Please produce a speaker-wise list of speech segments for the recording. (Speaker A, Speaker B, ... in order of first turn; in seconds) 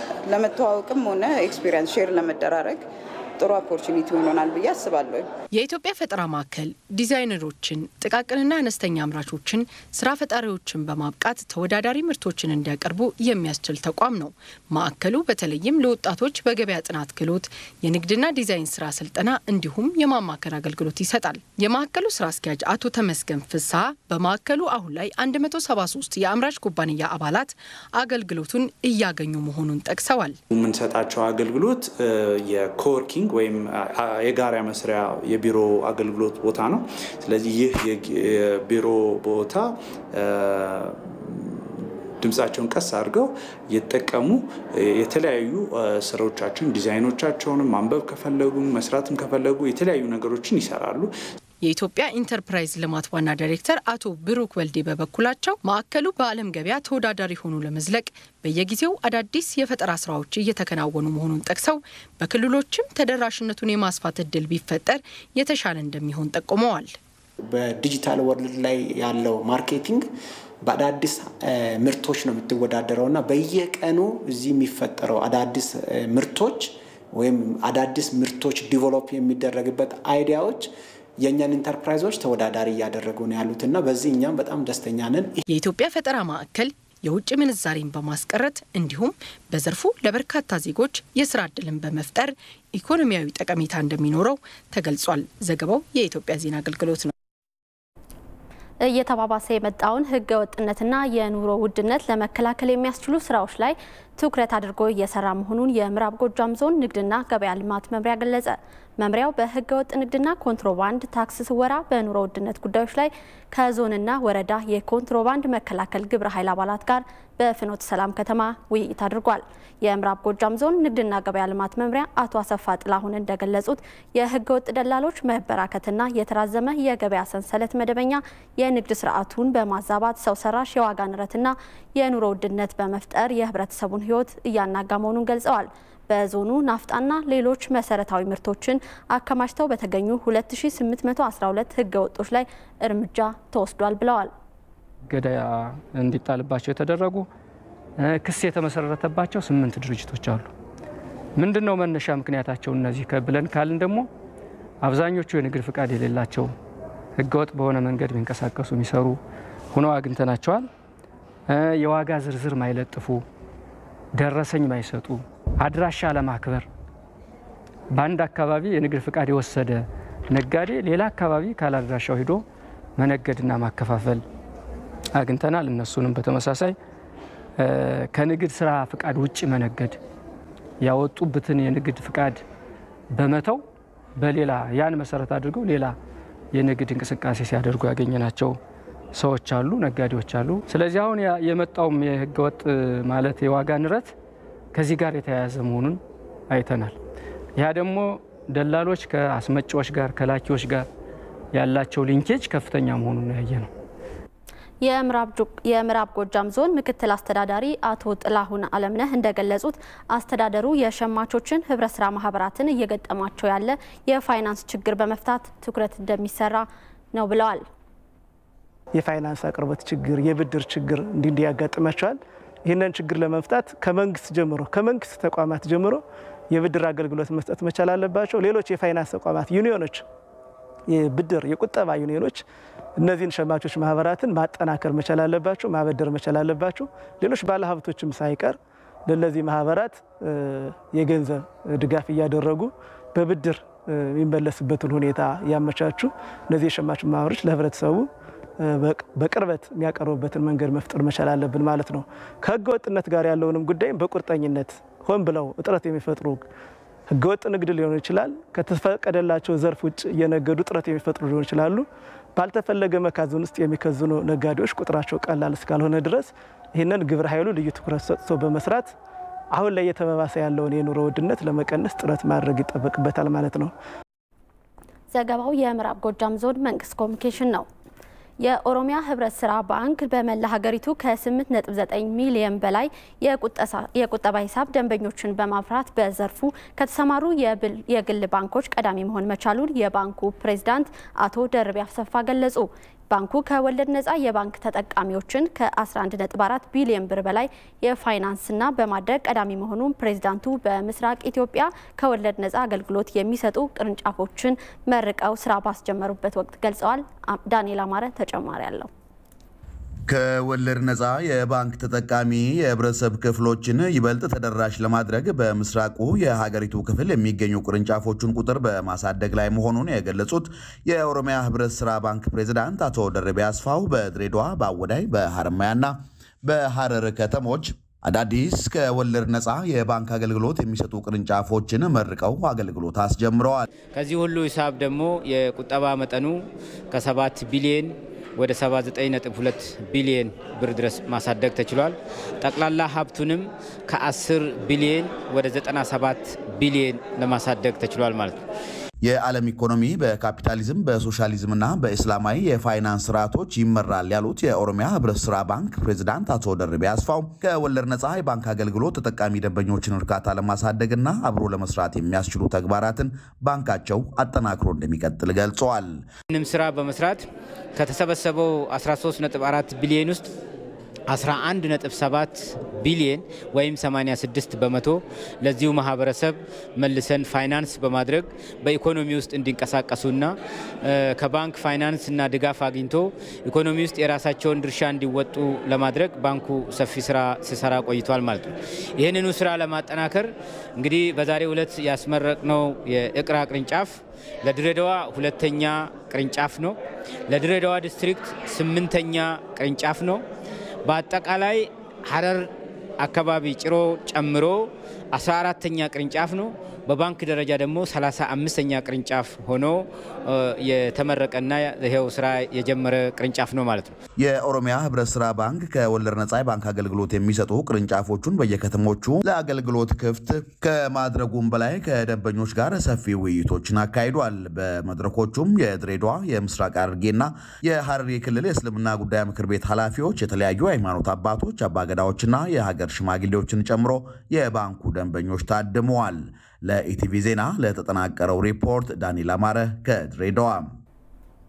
Speaker A: 0.2-5.3
Speaker B: 5.5-30.4, 51.6-66.9, 85.5-97.1
Speaker C: 30.5-41.6, 42.2-51.1
Speaker D: 67.5-70.0, 70.6-80.7, 81.2-85.4
Speaker E: 98.8-144.3, 204.8-217.6, 275.1-277.7, 278.4-308.9
Speaker F: 145.1-147.3, 148.0-150.5, 151.4-154.1, 154.8-156.5, 157.2-159.2, 159.7-160.7, 161.5-163.2, 164.1-166.7, 167.9-172.4, 173.0-174.2, 175.2-176.7, 177.6-180.0, 180.8-182.4, 183.1-183.6, 184.2-185.9, 186.5-188.6, 189.1-194.1, 194.7-196.9, 197.6-200.8, 201.5-203.7
Speaker G: 218.9-230.0, 230.9-232.4, 233.0-248.1, 248.6-256.4, 257.1-268.9, 269.5-273.7
Speaker H: 310.1-333.6, 349.0-366.0, 414.2-440.7
Speaker I: 333.9-348.4, 366.3-367.2, 367.8-370.3, 371.1-396.8, 397.3-400.2, 400.9-402.5, 403.0-413.9